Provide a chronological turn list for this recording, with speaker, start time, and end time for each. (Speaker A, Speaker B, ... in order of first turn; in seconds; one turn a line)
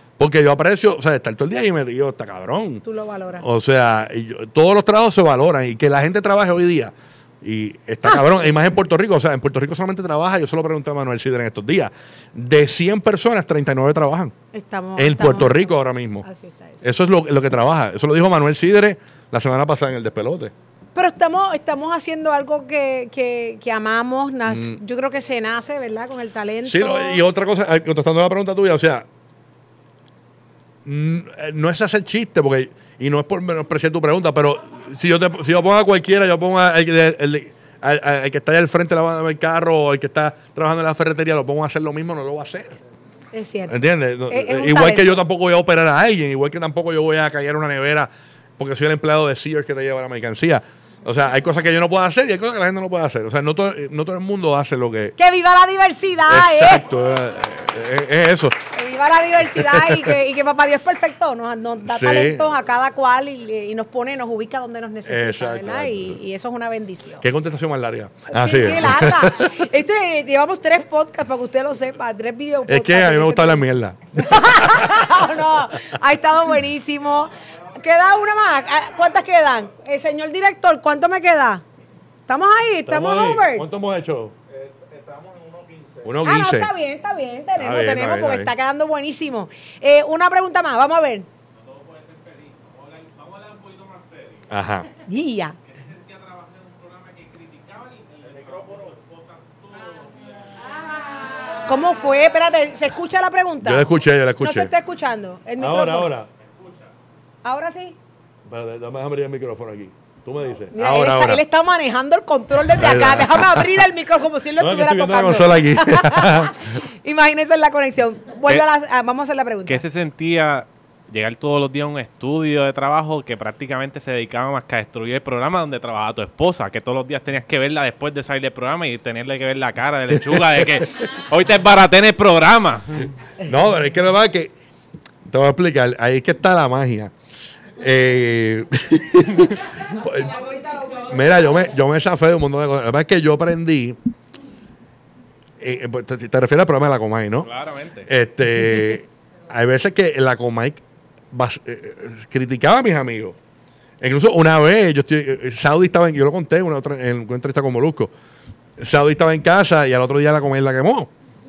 Speaker A: 0.2-2.8
Speaker B: 2.8-3.5
Speaker A: 3.4-14.3
Speaker B: 14.5-16.8
Speaker A: 15.0-16.3
Speaker A: 16.8-20.5
Speaker B: 20.9-27.2
Speaker A: 24.5-24.8
Speaker A: 26.6-29.1
Speaker A: 30.9-42.8
Speaker B: 43.3-43.8
Speaker A: 43.7-55.1
Speaker B: 44.3-45.1
Speaker B: 55.2-56.8
Speaker A: 56.3-58.6
Speaker B: 58.7-67.2
Speaker A: 59.6-60.1
Speaker A: 61.9-62.5
Speaker A: 65.1-66.2
Speaker A: 67.2-69.6
Speaker B: 68.3-73.6
Speaker A: 72.7-75.2
Speaker B: 74.2-81.7
Speaker B: 82.3-83.7
Speaker A: 82.9-84.4
Speaker C: 85.2-85.9
Speaker A: 86.0-86.7
Speaker B: 86.2-91.3
Speaker A: 87.6-88.5
Speaker C: 91.6-94.5
Speaker A: 94.5-94.9
Speaker B: 95.1-95.6
Speaker C: 95.8-100.5
Speaker B: 101.7-103.9
Speaker A: 103.6-104.7
Speaker B: 104.4-106.1
Speaker A: 105.6-106.3
Speaker B: 107.4-108.0
Speaker A: 108.5-111.4
Speaker B: 110.7-119.8
Speaker A: 112.7-113.7
Speaker A: 114.6-116.6
Speaker C: 119.7-133.1
Speaker A: 130.2-130.8
Speaker A: 133.4-134.5
Speaker A: 135.2-137.1
Speaker A: 137.8-144.0
Speaker A: 145.6-147.5
Speaker C: 147.4-148.1
Speaker A: 148.1-153.4
Speaker A: 154.0-158.1
Speaker A: 158.8-161.1